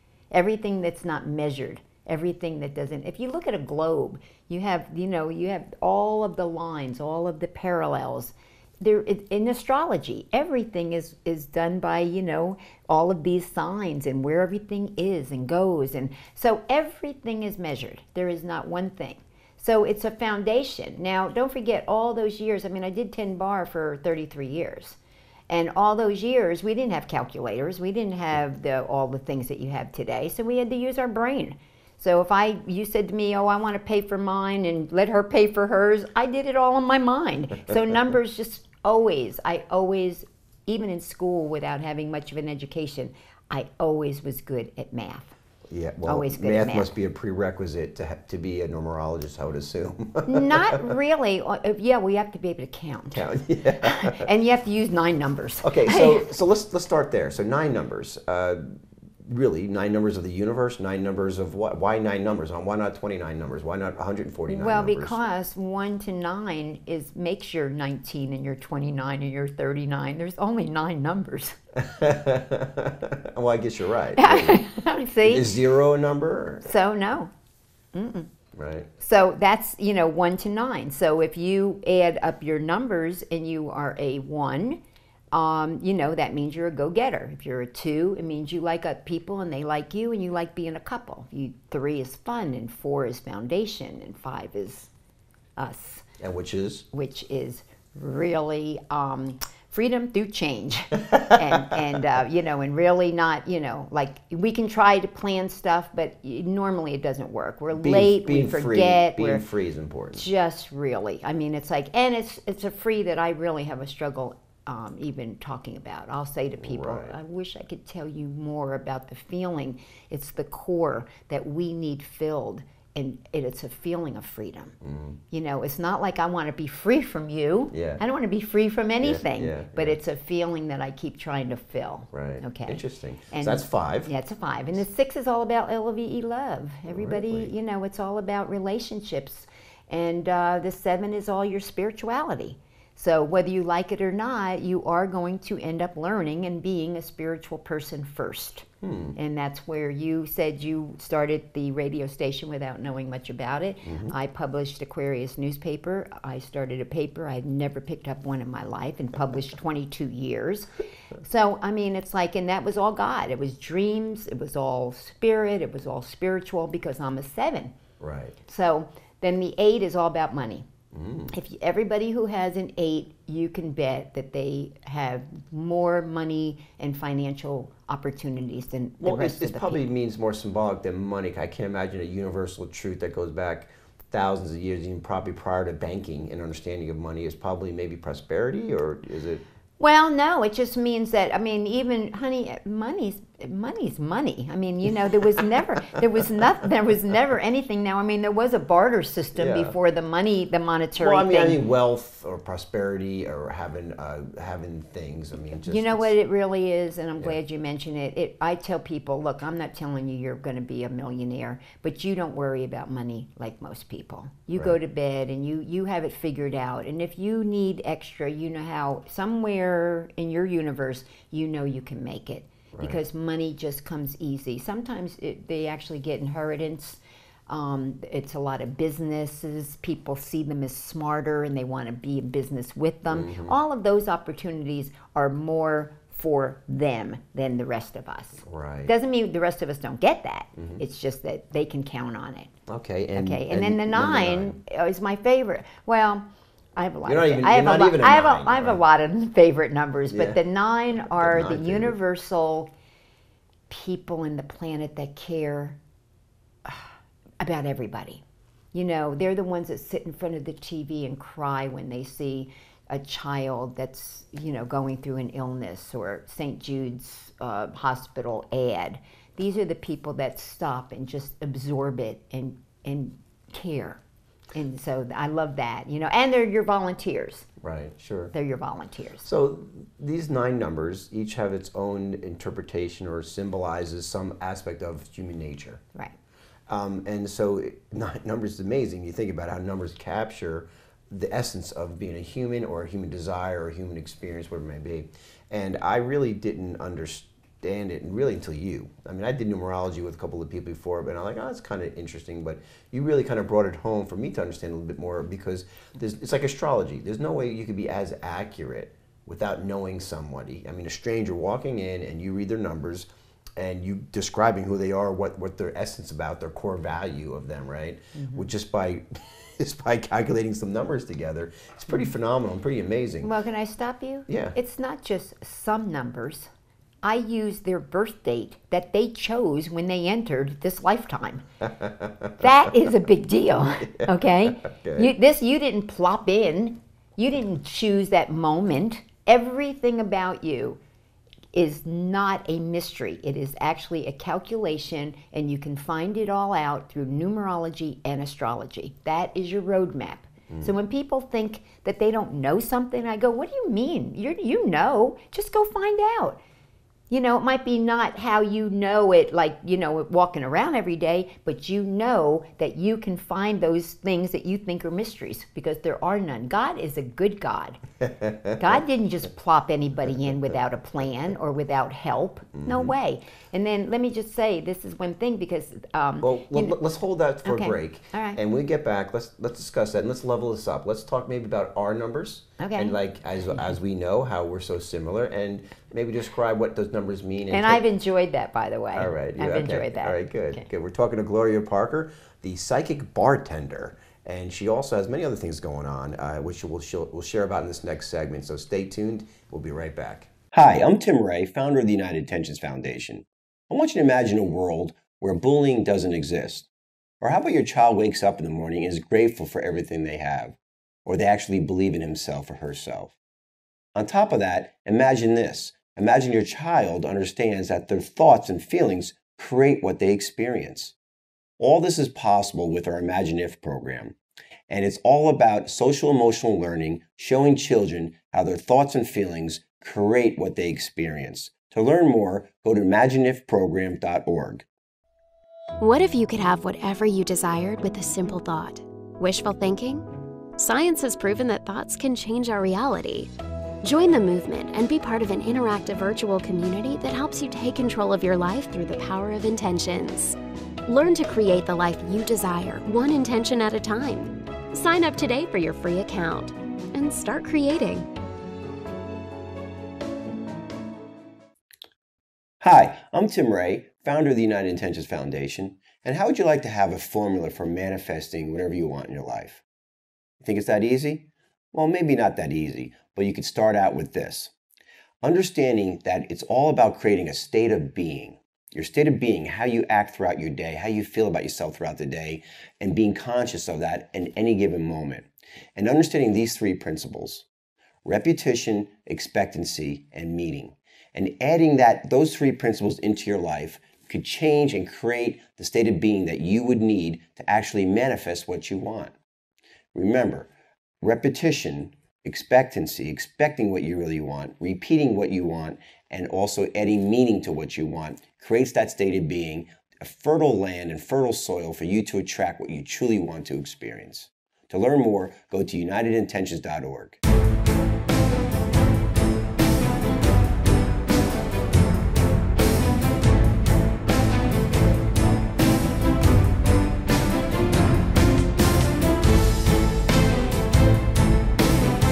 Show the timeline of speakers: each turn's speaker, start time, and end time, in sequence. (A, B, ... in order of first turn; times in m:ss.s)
0:00.3-0:25.0 A
0:25.5-0:45.3 A
0:45.7-0:50.9 B
0:46.0-0:46.9 A
0:50.2-0:53.2 A
0:53.1-0:54.3 B
0:53.8-0:56.3 A
0:55.6-1:05.2 B
1:04.5-1:11.6 A
1:11.7-1:14.6 B
1:14.2-1:15.5 A
1:15.2-1:16.7 B
1:16.6-1:17.3 A
1:17.9-1:18.3 A
1:18.5-1:18.9 B
1:19.0-1:24.8 A
1:25.3-1:34.9 A
1:35.6-1:36.0 A
1:36.2-1:36.8 B
1:36.9-1:49.4 A
1:41.1-1:41.8 B
1:47.7-1:50.3 B
1:50.1-2:04.8 A
1:56.6-1:57.1 B
2:04.8-2:05.2 B
2:05.3-2:47.8 A
2:07.7-2:08.0 B
2:09.0-2:10.0 B
2:12.1-2:14.1 B
2:16.9-2:17.5 B
2:28.8-2:29.2 B
2:33.8-2:34.1 B
2:48.0-2:48.4 B
2:48.4-2:50.6 A
2:50.9-2:51.3 B
2:51.3-2:59.8 A
2:59.0-3:09.4 B
3:09.8-3:21.6 A
3:19.3-3:19.7 B
3:21.0-3:26.1 B
3:25.7-4:02.5 A
3:42.7-3:43.0 B
3:53.1-3:53.6 B
3:58.4-3:58.9 B
4:02.7-4:04.6 B
4:03.1-4:06.2 A
4:06.8-4:12.7 A
4:07.0-4:08.8 B
4:10.1-4:10.4 B
4:11.1-4:12.0 B
4:13.7-4:15.8 A
4:17.4-4:34.0 A
4:34.5-4:37.5 A
4:37.6-4:38.3 B
4:38.3-4:39.2 A
4:39.2-4:45.8 B
4:46.7-5:23.3 B
5:18.1-5:18.5 A
5:23.2-5:26.5 A
5:24.3-5:24.6 B
5:27.0-5:31.4 A
5:31.8-5:32.4 B
5:32.4-5:40.8 A
5:33.9-5:35.1 B
5:41.5-5:56.4 A
5:57.1-6:07.8 A
6:08.2-6:08.8 B
6:08.6-6:16.8 A
6:12.6-6:12.9 B
6:16.2-6:27.8 B
6:17.4-6:18.4 A
6:22.6-6:23.0 A
6:27.5-6:30.6 A
6:28.9-6:46.7 B
6:47.2-6:53.2 B
6:53.9-7:00.9 B
7:01.6-7:04.2 B
7:04.7-7:14.6 B
7:15.8-7:23.3 C
7:23.8-7:38.1 C
7:42.6-7:49.6 B
7:50.4-7:54.5 B
7:55.2-8:07.4 B
8:08.0-8:19.1 B
8:19.9-8:20.5 B
8:21.0-8:37.2 B